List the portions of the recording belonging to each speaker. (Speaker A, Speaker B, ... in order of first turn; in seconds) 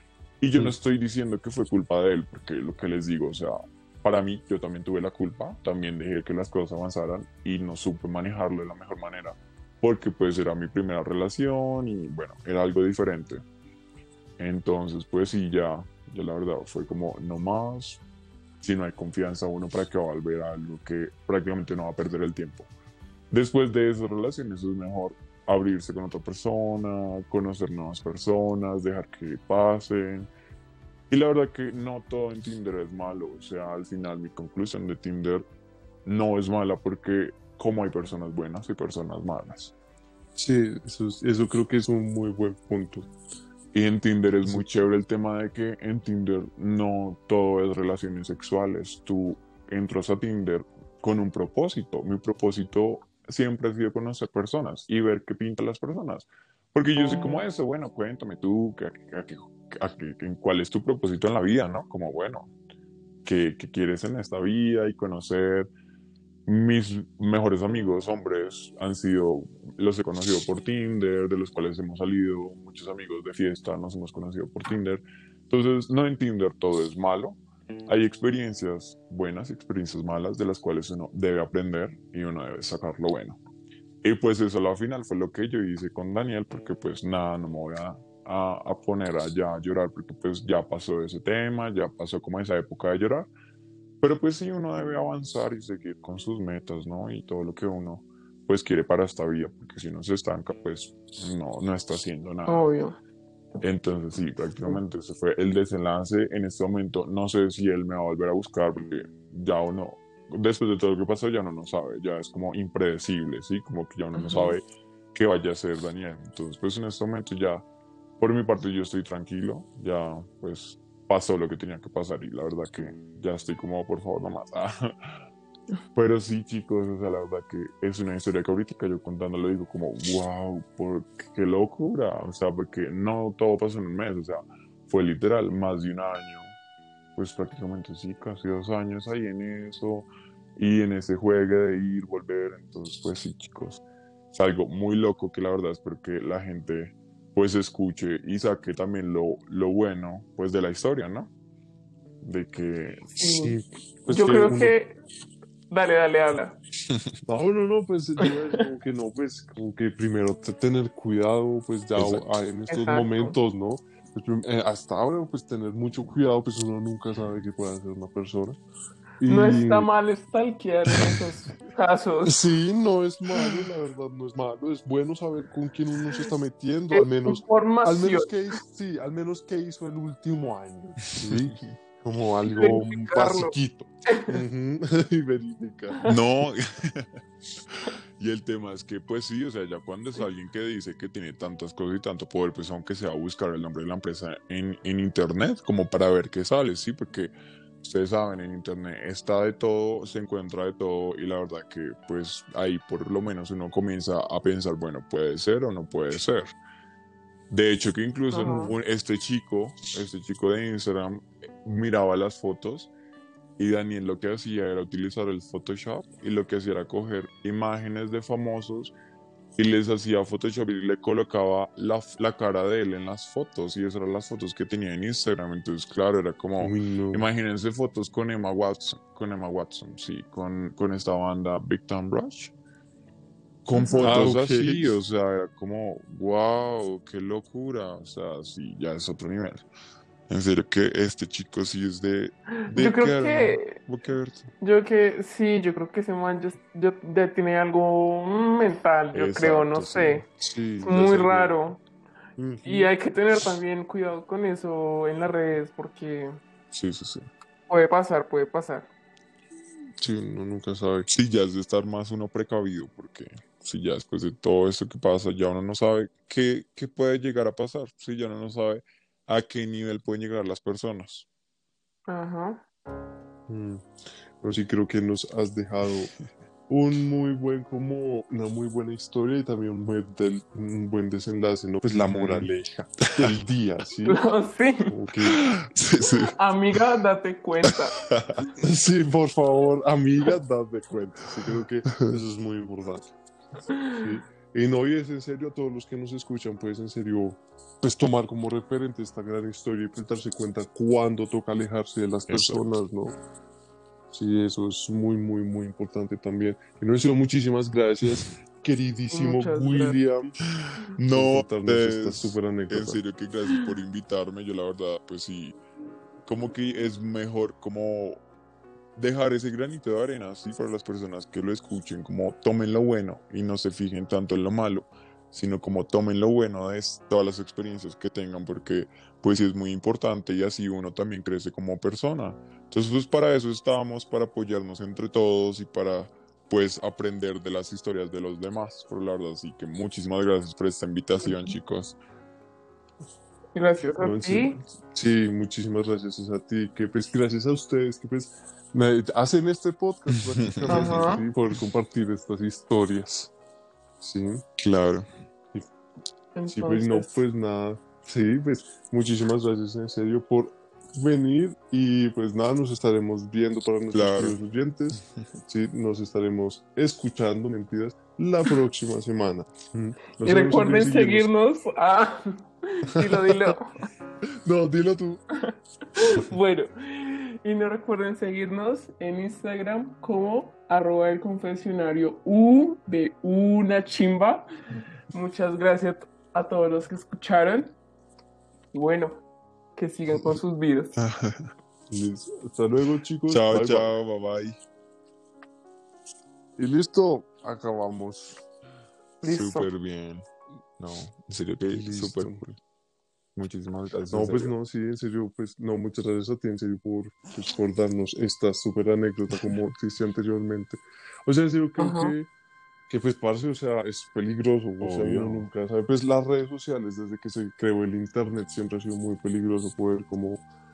Speaker A: 0.4-13.4, 14.4-18.0, 18.6-22.7, 23.3-30.3, 31.1-35.5, 36.0-39.7, 43.7-62.5, 63.2-65.7, 66.5-83.4, 84.0-93.3, 94.0-102.6, 103.6-117.6, 118.2-125.2, 125.9-136.6, 137.2-151.3, 152.2-153.2, 161.9-162.2, 181.3-181.7, 186.1-187.2, 187.7-206.5, 207.5-212.9, 213.6-218.9, 219.6-232.5, 233.6-239.6, 240.3-244.5, 249.1-250.2, 256.7-257.3, 261.1-271.3, 282.0-283.3, 285.2-286.8, 287.6-288.5, 302.3-302.6, 310.6-315.6, 316.2-318.2, 318.9-342.0, 350.4-351.1, 354.6-355.1, 363.9-364.4, 390.9-391.5, 393.3-394.6, 399.2-400.2, 400.8-402.6, 403.3-404.5, 414.8-415.5
Speaker B: 40.4-43.1, 153.2-154.7, 157.2-168.6, 169.2-169.9, 172.2-186.0, 226.6-227.2, 234.0-235.0, 250.4-251.5, 252.4-252.9, 260.0-261.1, 273.5-276.1, 276.7-284.2, 284.9-285.4, 288.6-293.1, 293.9-303.2, 304.1-310.4, 311.1-313.0, 344.0-353.3, 354.0-354.4, 356.5-371.3, 373.0-373.5, 374.3-375.2, 391.9-393.9, 396.6-398.4, 401.7-402.4, 404.1-412.3, 412.9-420.4
Speaker C: 57.0-57.4, 102.5-103.0, 114.2-114.6, 153.2-153.6, 154.1-154.9, 155.7-156.6, 158.2-158.6, 162.7-163.3, 169.2-172.4, 176.9-178.3, 182.5-183.5, 184.1-184.4, 208.3-208.7, 233.7-234.3, 242.7-243.8, 244.6-250.2, 250.8-251.8, 252.6-256.4, 257.7-258.9, 272.1-272.6, 284.1-284.9, 286.1-288.1, 293.8-294.1, 309.1-309.9, 343.5-344.6, 350.6-351.2, 356.3-357.2, 370.2-373.8, 375.4-384.5, 385.1-387.7, 388.7-389.2, 389.8-390.9, 399.2-399.7, 411.8-412.1